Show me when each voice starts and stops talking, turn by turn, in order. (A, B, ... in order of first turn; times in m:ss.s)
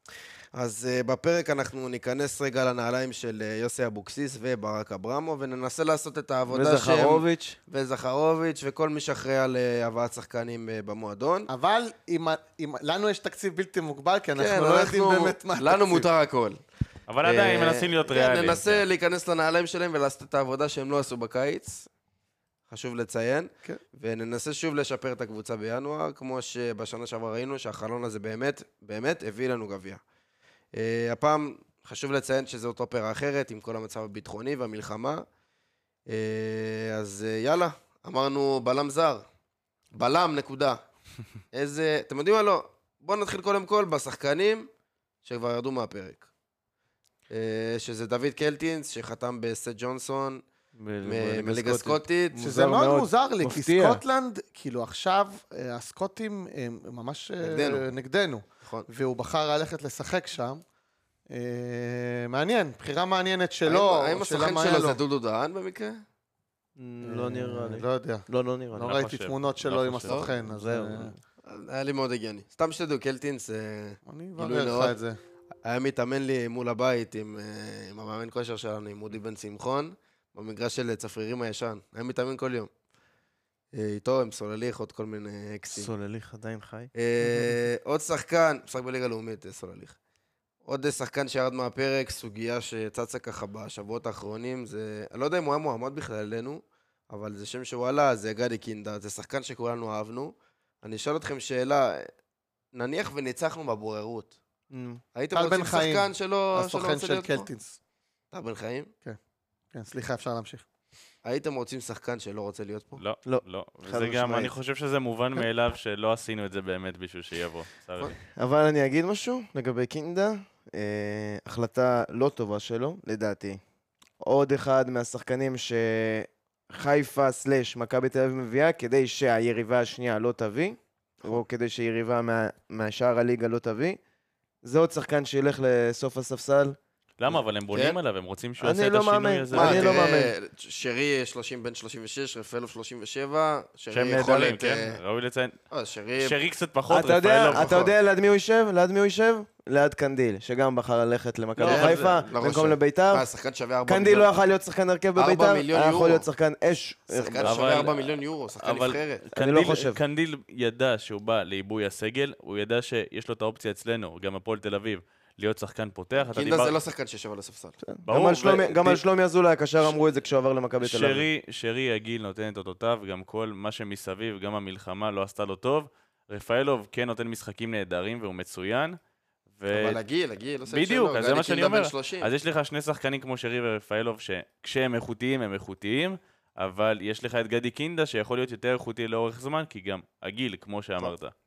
0:00.5-0:11.5 A
0:06.5-0:07.6 B
0:11.5-0:16.1 C
0:14.4-0:16.6 A
0:17.1-0:18.8 D
0:17.2-0:21.9 A
0:22.7-0:30.0 A
0:30.7-0:35.2 A
0:36.1-0:39.2 A
0:39.9-0:40.8 A
0:41.5-0:44.7 A
0:45.2-0:46.2 A
0:47.3-0:50.4 A
0:50.8-0:54.0 B
0:51.0-0:52.4 A
0:52.4-1:00.6 C
0:57.4-0:57.8 A
0:58.6-0:58.9 A
1:01.3-1:05.0 C
1:03.6-1:06.0 A
1:06.8-1:09.0 B
1:07.0-1:11.1 C
1:08.8-1:10.3 D
1:10.5-1:11.2 B
1:11.4-1:14.9 A
1:14.1-1:15.2 C
1:15.6-1:22.7 A
1:23.7-1:25.9 A
1:25.8-1:27.6 B
1:26.9-1:30.0 A
1:30.6-1:42.1 A
1:42.7-1:44.3 A
1:44.7-1:45.0 B
1:45.1-1:47.5 A
1:45.3-1:47.8 C
1:48.3-1:48.9 A
1:49.7-1:50.6 C
1:51.2-1:53.0 A
1:53.0-1:58.2 D
1:53.2-1:54.5 B
1:58.3-2:03.6 B
2:04.2-2:14.0 B
2:14.6-2:16.8 B
2:17.2-2:20.0 D
2:17.7-2:18.0 A
2:18.6-2:20.3 B
2:19.5-2:25.0 A
2:23.9-2:25.6 D
2:25.7-2:26.4 A
2:26.2-2:27.8 D
2:26.9-2:33.2 B
2:27.5-2:27.9 A
2:31.6-2:32.3 D
2:31.6-2:34.3 A
2:33.8-2:37.5 B
2:35.2-2:36.2 A
2:37.1-2:39.2 A
2:37.4-2:38.0 D
2:38.6-2:46.7 D
2:39.3-2:40.0 B
2:46.3-2:47.8 A
2:47.8-2:51.3 B
2:48.0-2:49.0 D
2:50.8-2:59.0 D
2:59.6-3:00.0 D
2:59.7-3:02.3 A
3:00.7-3:11.3 D